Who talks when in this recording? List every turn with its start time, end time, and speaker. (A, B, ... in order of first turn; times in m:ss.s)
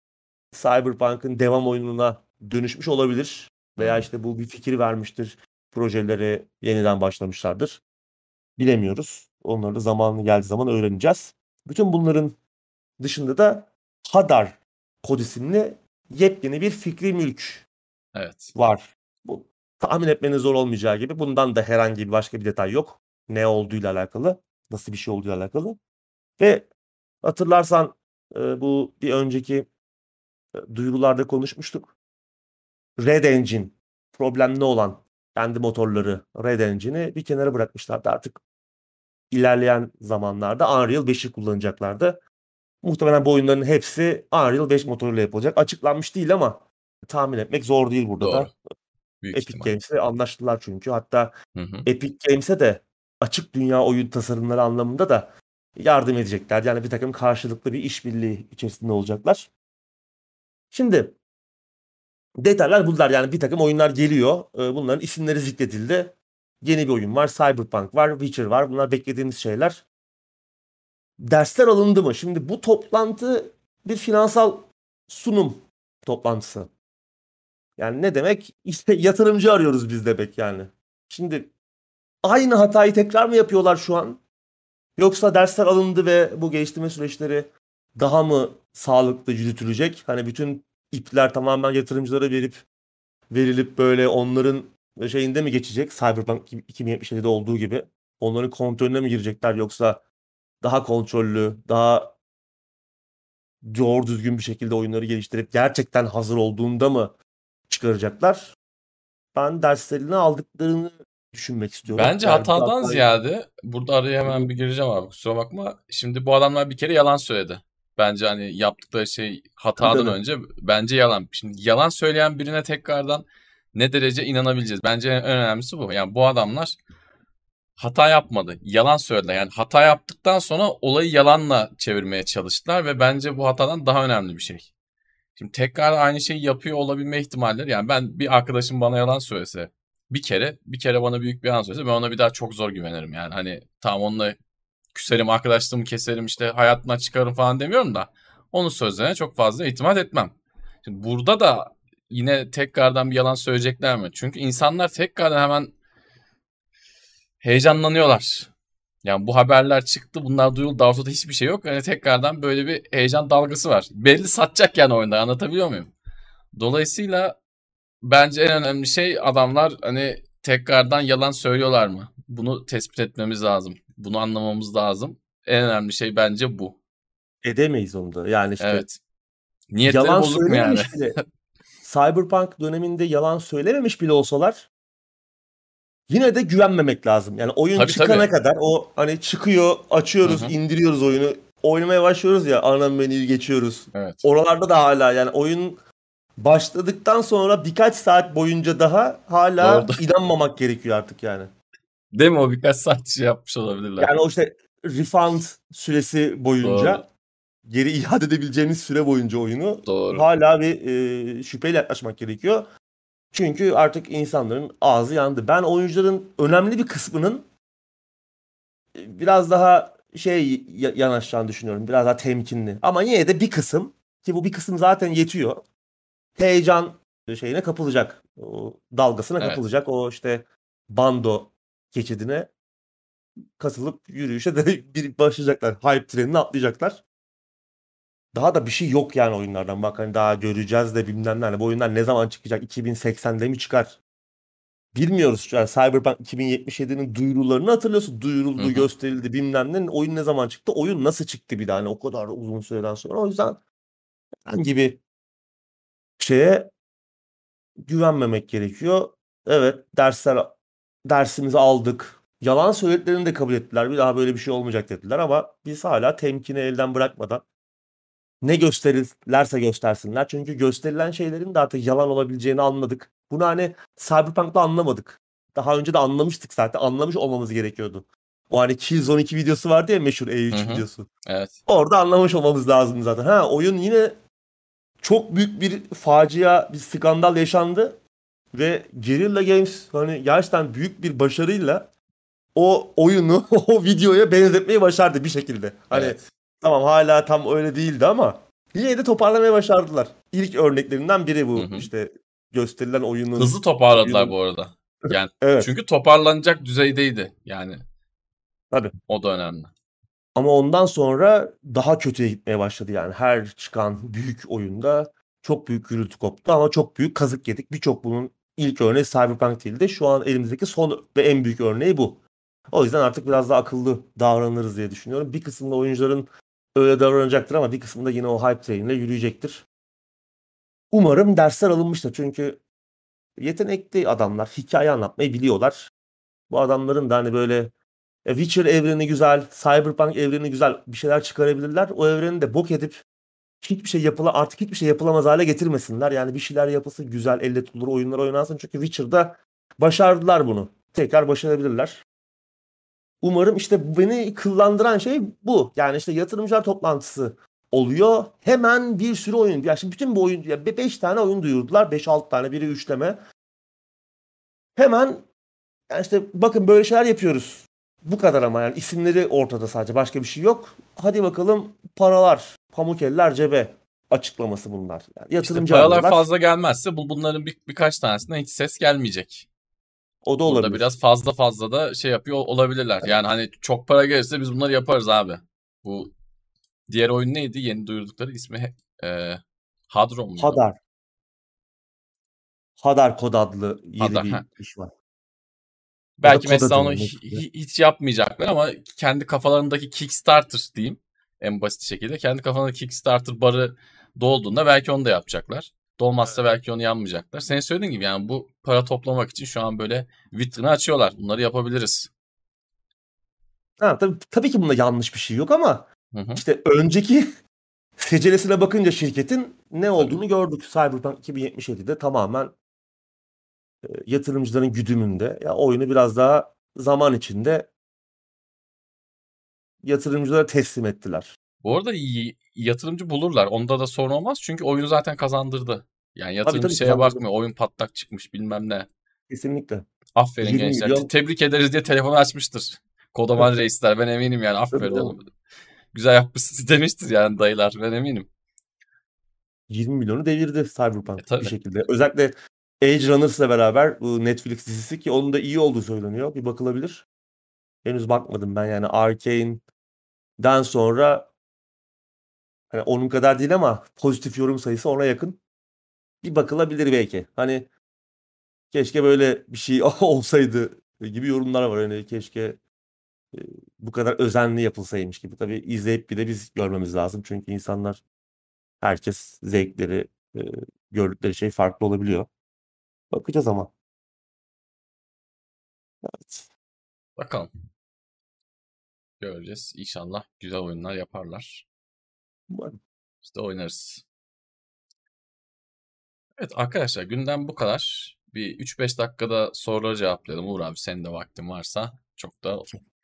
0:00.5-0:07.8 A
0:03.8-0:04.1 B
0:08.6-0:12.4 A
0:13.0-0:17.6 A
0:18.1-0:18.5 B
0:18.5-0:25.8 A
0:26.4-0:26.7 A
0:27.2-0:29.7 A
0:30.5-0:31.9 A
0:33.0-0:38.4 A
0:39.3-0:42.2 A
0:42.8-0:48.5 A
0:48.2-0:48.5 B
0:49.2-0:49.8 B
0:49.3-0:51.3 A
0:51.5-0:51.9 B
0:51.8-0:59.5 A
1:00.7-1:01.1 A
1:02.4-1:09.8 A
1:11.2-1:16.7 A
1:17.8-1:21.5 A
1:22.2-1:24.2 A
1:25.0-1:32.6 A
1:33.3-1:40.0 A
1:40.6-1:42.2 A
1:43.6-1:47.1 A
1:47.7-1:48.5 A
1:49.3-1:53.1 A
1:51.9-2:06.8 B
1:54.2-1:54.5 A
1:59.8-2:00.2 A
2:07.8-2:14.7 B
2:15.4-2:24.4 B
2:24.9-2:35.7 B
2:37.4-2:38.5 B
2:39.0-2:45.9 B
2:46.5-2:47.4 B
2:48.0-2:56.8 B
2:57.4-2:58.8 A
2:58.6-2:59.0 B
2:59.7-3:01.2 B
2:59.8-3:01.2 A
3:01.8-3:04.7 A
3:06.1-3:15.8 A
3:07.8-3:08.3 B
3:10.2-3:10.5 B
3:13.9-3:14.2 B
3:16.4-3:21.5 A
3:19.6-3:20.0 B
3:22.1-3:24.1 B
3:24.0-3:27.1 A
3:26.6-3:27.0 B
3:27.6-3:32.6 A
3:29.8-3:30.2 B
3:33.3-3:37.4 A
3:38.9-3:45.6 A
3:46.4-3:52.5 A
3:53.6-3:57.0 A
3:58.3-4:04.0 A
4:04.9-4:13.6 A
4:08.6-4:08.9 B
4:14.4-4:15.0 A
4:16.2-4:16.7 A
4:17.8-4:20.5 A
4:21.0-4:27.4 A
4:28.4-4:41.1 A
4:40.5-4:41.6 B
4:41.6-4:44.1 A
4:45.0-4:48.0 A
4:48.5-4:51.9 A
4:52.5-5:04.3 A
4:55.9-4:56.2 B
5:01.5-5:01.9 B
5:03.4-5:07.8 B
5:05.1-5:05.7 A
5:09.1-5:09.7 B
5:10.4-5:29.6 A
5:30.9-5:32.6 A
5:33.4-5:35.9 A
5:36.5-5:37.7 A
5:38.2-5:43.0 A
5:43.6-5:52.0 A
5:53.2-6:03.2 A
6:04.8-6:05.2 A
6:05.9-6:16.2 A
6:15.4-6:19.5 B
6:20.2-6:20.9 A
6:20.4-6:26.1 B
6:23.0-6:23.3 A
6:26.9-6:30.6 B
6:30.4-6:30.8 A
6:32.8-6:34.9 A
6:34.0-6:34.4 B
6:36.2-6:52.1 B
6:36.2-6:37.4 A
6:53.8-6:57.2 A
6:56.1-6:56.4 B
6:58.0-7:02.5 A
7:00.0-7:00.2 B
7:03.8-7:07.7 A
7:09.8-7:11.3 A
7:11.6-7:18.9 B
7:16.4-7:17.2 A
7:19.3-7:19.9 A
7:20.1-7:25.2 B
7:20.4-7:21.1 A
7:24.7-7:25.1 A
7:25.9-7:28.3 B
7:29.7-7:37.0 A
7:31.2-7:31.5 B
7:37.8-7:39.6 A
7:40.4-7:41.3 A
7:42.7-7:45.4 A
7:46.2-7:47.7 A
7:48.7-7:52.6 A
7:53.3-7:58.0 A
7:58.8-8:02.3 A
8:03.1-8:03.7 A
8:06.0-8:06.5 A
8:07.2-8:07.5 B
8:09.2-8:11.6 B
8:12.5-8:12.8 A
8:13.2-8:14.0 B
8:16.4-8:22.7 B